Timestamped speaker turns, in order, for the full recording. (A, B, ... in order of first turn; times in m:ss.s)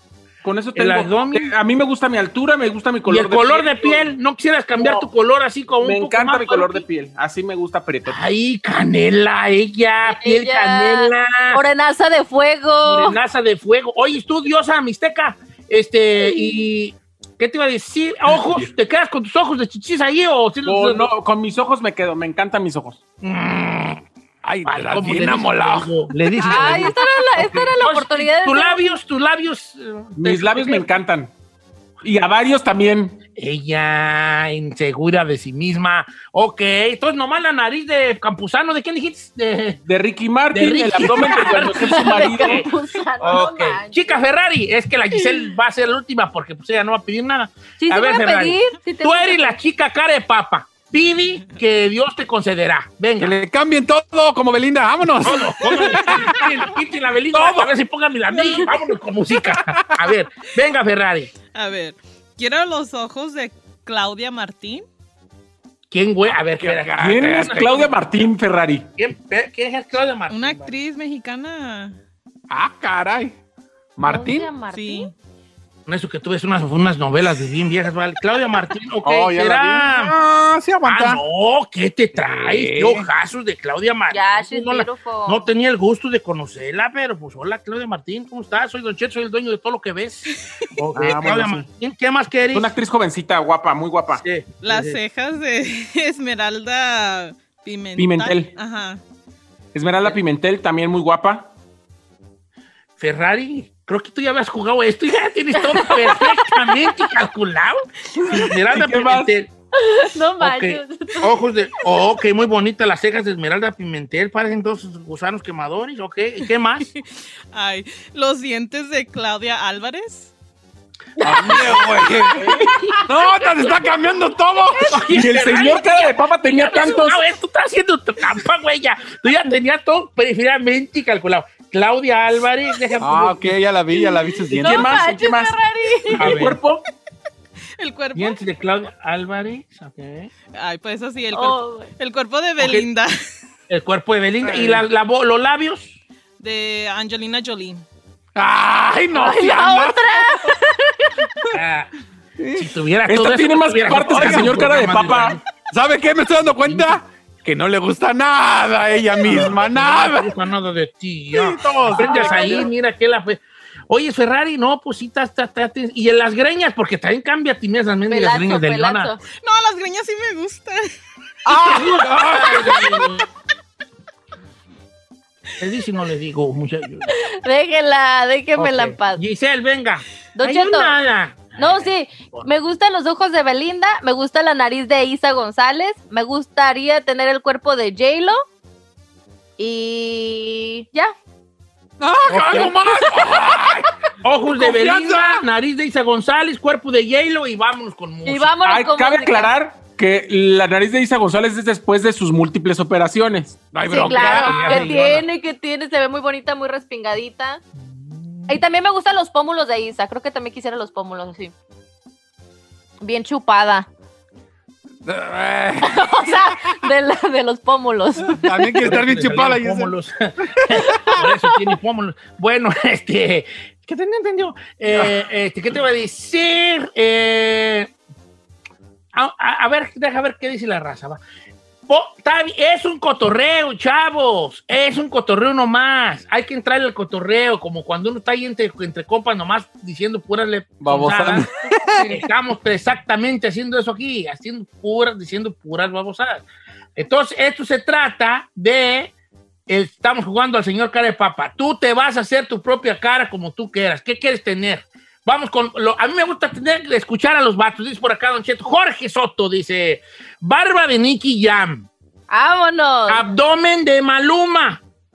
0:00.4-0:04.2 A
0:00.8-0:01.5 B
0:03.1-0:06.8 B
0:05.8-0:08.2 A
0:08.1-0:11.6 B
0:10.1-0:13.2 C
0:12.8-0:21.1 B
0:16.2-0:16.6 C
0:18.4-0:18.6 D
0:20.6-0:23.0 A
0:23.2-0:24.0 B
0:24.4-0:26.8 D
0:24.6-0:30.9 B
0:26.4-0:28.8 C
0:30.2-0:31.3 A
0:32.0-0:33.2 A
0:33.4-0:39.8 B
0:39.9-0:42.7 A
0:40.5-0:42.7 B
0:41.1-0:44.2 C
0:43.2-0:53.3 B
0:47.8-0:49.6 C
0:53.2-0:56.7 D
0:55.2-1:01.3 B
0:57.3-0:57.7 D
0:59.3-1:00.1 D
1:01.5-1:04.8 E
1:05.9-1:08.0 B
1:06.3-1:07.8 D
1:07.0-1:08.9 A
1:09.0-1:10.7 B
1:10.3-1:12.0 E
1:12.5-1:13.4 D
1:14.0-1:14.5 D
1:14.0-1:15.1 C
1:14.7-1:15.1 E
1:15.9-1:20.1 B
1:19.0-1:21.2 D
1:20.9-1:32.7 B
1:22.2-1:23.1 D
1:24.1-1:25.5 C
1:31.0-1:31.6 A
1:31.0-1:31.4 D
1:32.5-1:34.2 A
1:34.2-1:35.0 B
1:34.6-1:39.0 E
1:38.0-1:38.5 A
1:39.7-1:41.5 A
1:43.0-1:49.5 B
1:45.8-1:46.3 C
1:48.4-1:49.3 A
1:49.7-1:52.0 C
1:50.4-1:56.9 B
1:57.5-2:00.3 E
2:01.2-2:05.4 D
2:01.4-2:01.7 B
2:04.9-2:13.6 B
2:05.1-2:07.2 A
2:13.0-2:15.0 D
2:14.6-2:16.3 C
2:14.6-2:15.6 A
2:16.1-2:16.6 B
2:16.2-2:16.8 A
2:17.8-2:18.4 E
2:18.2-2:20.3 B
2:20.6-2:23.2 E
2:21.3-2:21.9 C
2:22.6-2:22.9 B
2:23.7-2:25.9 B
2:26.4-2:27.8 E
2:28.4-2:30.0 D
2:29.1-2:31.1 C
2:31.5-2:31.9 B
2:32.6-2:35.4 B
2:33.1-2:35.4 A
2:34.0-2:40.3 D
2:36.6-2:37.0 B
2:39.2-2:49.1 B
2:41.4-2:42.7 D
2:42.0-2:42.6 C
2:48.1-2:49.2 C
2:49.4-2:50.9 E
2:51.5-2:52.8 D
2:51.5-2:53.2 B
2:55.6-2:57.1 B
2:57.1-2:59.2 C
2:58.6-3:02.5 B
3:00.4-3:01.0 C
3:01.6-3:08.4 C
3:09.6-3:11.1 C
3:12.0-3:13.9 D
3:12.3-3:12.7 B
3:14.2-3:18.5 B
3:14.5-3:15.4 D
3:18.2-3:19.5 C
3:18.6-3:23.6 A
3:23.7-3:25.1 D
3:23.9-3:27.6 C
3:23.9-3:25.2 B
3:28.5-3:31.5 C
3:33.0-3:33.9 C
3:35.1-3:36.4 D
3:35.8-3:38.8 C
3:38.4-3:39.9 D
3:38.8-3:47.9 B
3:40.6-3:41.3 D
3:44.9-3:45.2 D
3:49.1-3:51.2 B
3:51.9-4:01.5 B
4:00.8-4:02.0 D
4:02.0-4:06.4 B
4:07.0-4:09.1 B
4:09.7-4:21.9 B
4:22.3-4:23.3 C
4:23.1-4:24.8 B